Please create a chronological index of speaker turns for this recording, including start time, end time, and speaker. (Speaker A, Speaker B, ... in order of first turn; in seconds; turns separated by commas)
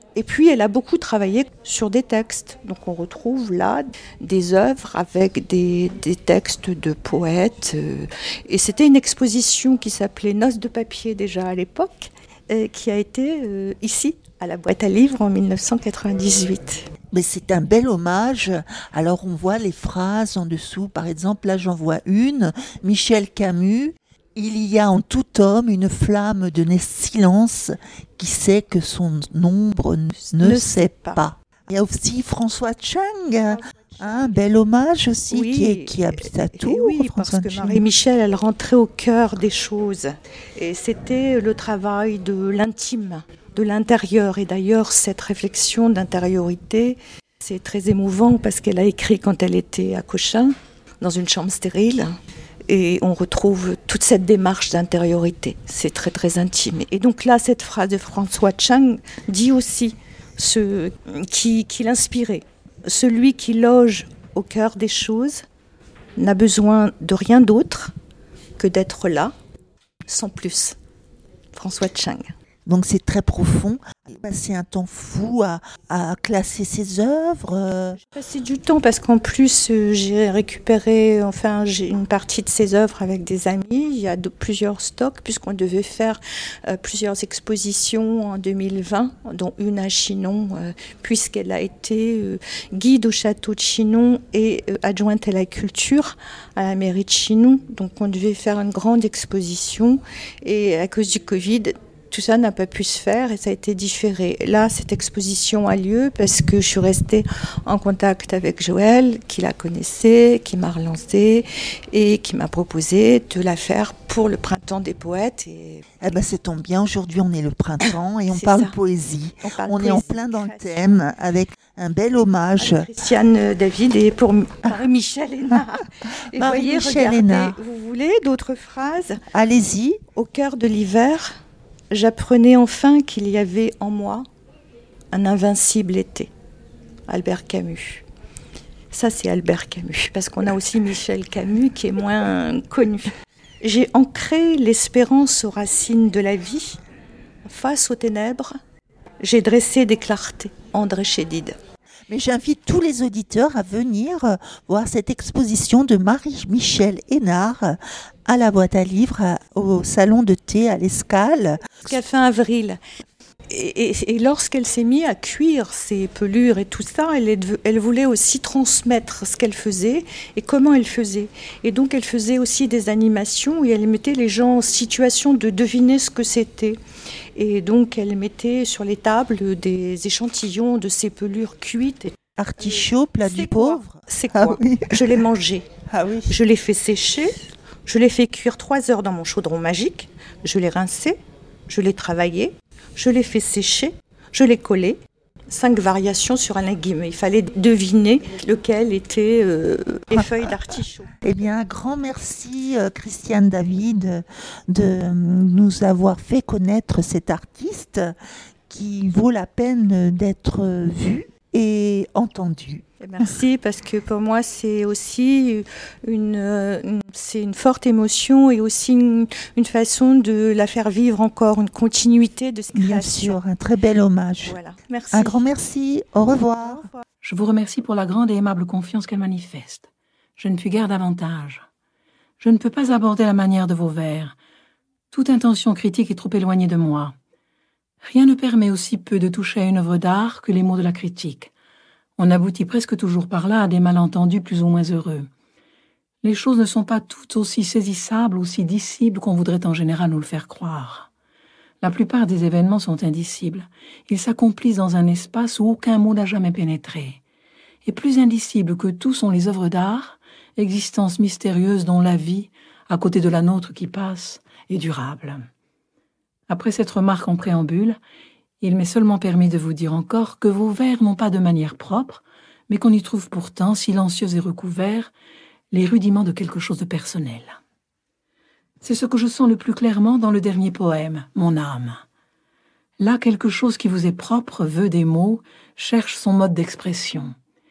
Speaker A: 0.1-16.9, Speaker B: 17.1-37.8, Speaker A: 30.2-31.2, Speaker A: 33.5-34.3, Speaker A: 35.3-65.4, Speaker A: 66.2-67.9, Speaker A: 68.6-69.3, Speaker A: 70.0-70.8, Speaker A: 71.5-72.3, Speaker B: 72.7-78.0, Speaker A: 77.9-116.1, Speaker B: 116.0-122.9, Speaker A: 117.8-118.7, Speaker A: 119.4-120.8, Speaker A: 122.6-129.2, Speaker B: 126.3-127.5, Speaker B: 129.3-130.0, Speaker A: 130.1-131.3, Speaker A: 131.9-134.2, Speaker A: 135.1-136.3, Speaker A: 137.1-138.0, Speaker A: 138.9-146.8, Speaker A: 147.4-148.5, Speaker A: 149.2-151.5, Speaker B: 152.1-161.8, Speaker A: 161.8-162.8, Speaker A: 163.5-176.8, Speaker A: 177.3-185.7, Speaker B: 182.4-185.1, Speaker B: 185.9-186.3, Speaker A: 186.3-191.2, Speaker A: 191.7-195.0, Speaker A: 195.5-201.1, Speaker B: 201.2-208.1, Speaker B: 208.7-213.3, Speaker A: 213.0-223.4, Speaker B: 222.7-224.6, Speaker A: 224.4-225.4, Speaker B: 225.1-226.9, Speaker A: 226.6-227.0, Speaker C: 227.2-231.6, Speaker C: 232.4-234.3, Speaker C: 235.1-237.1, Speaker C: 238.0-241.5, Speaker C: 242.2-245.3, Speaker C: 246.2-251.1, Speaker C: 251.8-257.2, Speaker C: 257.8-265.4, Speaker C: 266.5-268.0, Speaker C: 268.6-275.1, Speaker C: 275.7-277.6, Speaker C: 278.8-282.0, Speaker C: 283.0-287.3